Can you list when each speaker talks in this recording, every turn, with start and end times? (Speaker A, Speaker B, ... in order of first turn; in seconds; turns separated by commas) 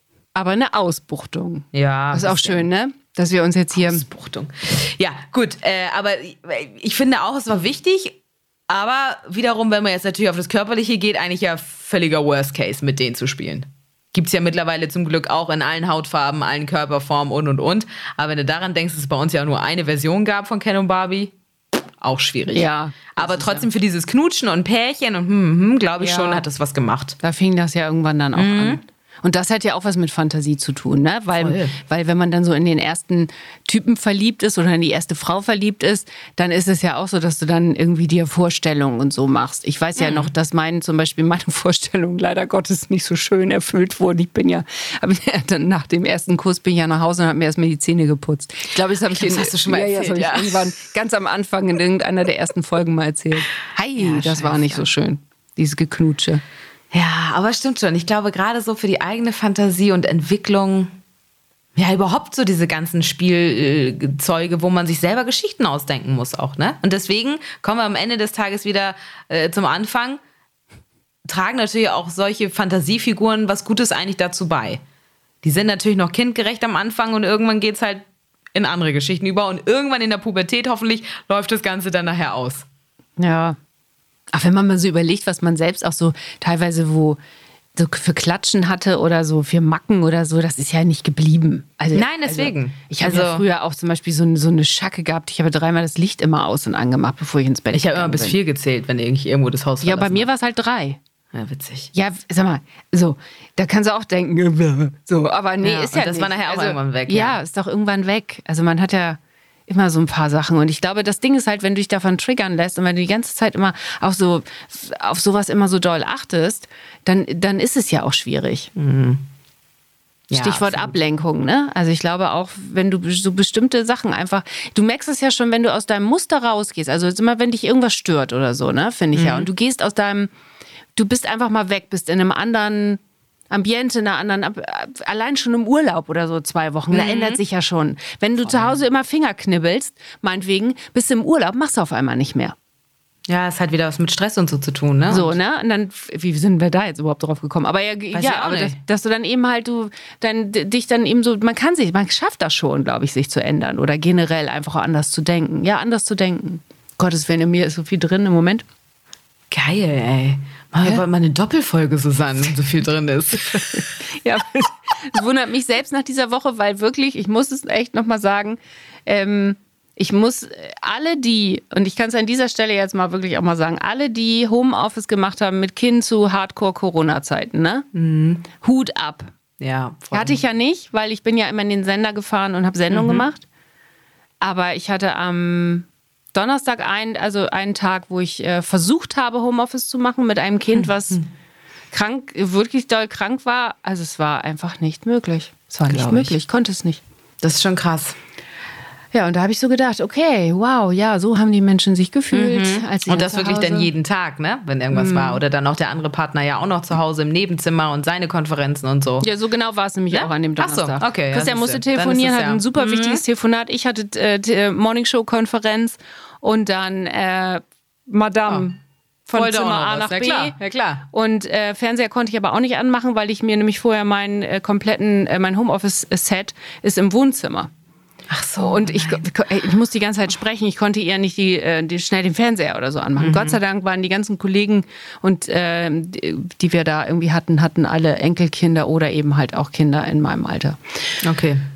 Speaker A: 0.3-4.0, Speaker B: 1.7-2.6, Speaker B: 3.8-8.2, Speaker B: 8.7-21.3, Speaker B: 22.0-27.2, Speaker A: 22.5-23.7, Speaker A: 26.0-26.4, Speaker A: 27.2-56.4, Speaker B: 28.4-28.8, Speaker B: 31.3-31.8, Speaker B: 40.0-40.3, Speaker B: 49.1-50.7, Speaker B: 54.0-54.9, Speaker B: 56.9-61.0, Speaker B: 61.8-70.2, Speaker B: 71.2-74.8, Speaker B: 75.4-82.7, Speaker A: 83.2-83.6, Speaker A: 84.3-87.2, Speaker A: 87.8-98.4, Speaker B: 91.9-93.5, Speaker B: 97.7-100.3, Speaker A: 99.8-101.0, Speaker B: 101.3-101.9, Speaker A: 101.9-118.7, Speaker B: 105.6-107.4, Speaker B: 118.8-119.2, Speaker B: 120.3-120.9, Speaker A: 120.3-130.3, Speaker B: 129.1-129.5, Speaker A: 131.0-142.6, Speaker B: 136.9-137.4, Speaker B: 138.4-138.8, Speaker B: 143.3-145.4, Speaker A: 145.1-158.7, Speaker B: 148.1-148.8, Speaker B: 159.5-163.8, Speaker A: 163.5-177.9, Speaker B: 177.9-178.5, Speaker A: 178.5-179.3, Speaker B: 179.6-180.4, Speaker A: 180.1-183.4, Speaker B: 182.9-183.2, Speaker A: 184.4-191.2, Speaker B: 190.7-191.2, Speaker A: 191.9-197.0, Speaker B: 195.9-196.3, Speaker B: 197.4-198.2, Speaker A: 199.1-203.9, Speaker B: 202.3-209.3, Speaker A: 204.9-205.4, Speaker A: 209.2-220.6, Speaker B: 210.1-213.2, Speaker B: 219.3-221.0, Speaker A: 221.1-227.7, Speaker B: 228.3-229.2, Speaker A: 228.6-241.1, Speaker B: 233.2-233.6, Speaker B: 241.2-241.6